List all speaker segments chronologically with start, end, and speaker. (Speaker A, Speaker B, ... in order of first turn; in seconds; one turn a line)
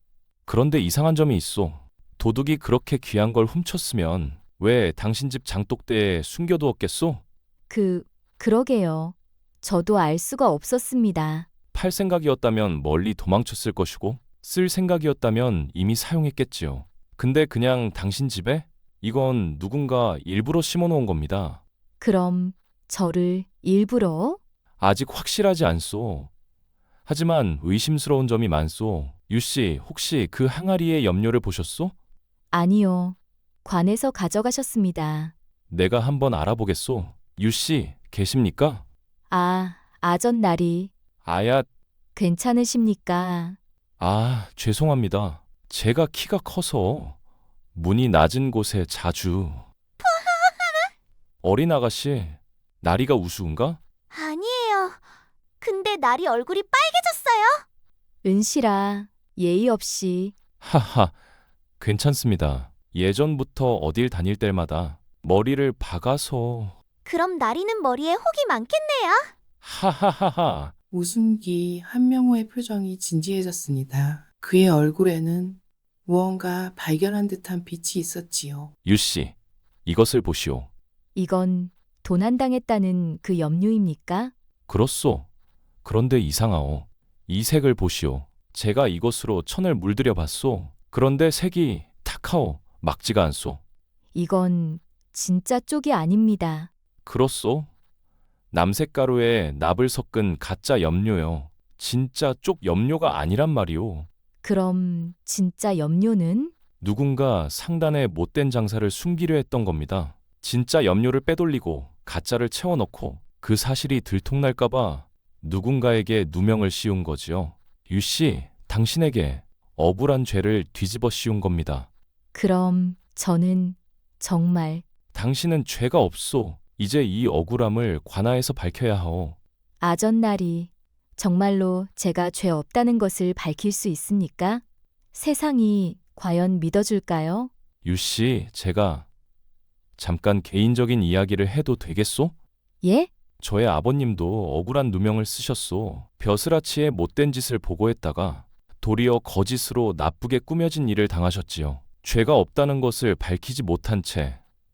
Speaker A: 0.5-7.2
Speaker B: 7.7-11.5
Speaker A: 11.7-21.6
Speaker B: 22.0-24.4
Speaker A: 24.8-26.3
Speaker A: 27.1-31.9
Speaker B: 32.5-35.3
Speaker A: 35.7-38.8
Speaker B: 39.3-40.9
Speaker A: 41.2-41.7
Speaker B: 42.1-43.6
Speaker A: 44.0-47.1
Speaker A: 47.7-49.6
Speaker C: 50.0-50.9
Speaker A: 51.4-53.8
Speaker C: 54.1-55.0
Speaker C: 55.6-57.6
Speaker B: 58.2-60.3
Speaker A: 60.6-61.1
Speaker A: 61.8-66.7
Speaker C: 67.0-69.3
Speaker A: 69.6-70.7
Speaker D: 70.9-78.7
Speaker A: 78.8-79.3
Speaker A: 79.8-80.7
Speaker B: 81.1-84.3
Speaker A: 84.7-85.2
Speaker A: 85.8-93.6
Speaker B: 94.1-96.7
Speaker A: 97.0-97.7
Speaker A: 98.5-104.1
Speaker B: 104.4-106.5
Speaker A: 106.8-121.9
Speaker B: 122.3-124.8
Speaker A: 125.1-129.3
Speaker B: 129.8-134.6
Speaker B: 135.1-137.5
Speaker A: 137.8-139.1
Speaker A: 140.0-142.3
Speaker B: 142.8-143.1
Speaker A: 143.4-154.4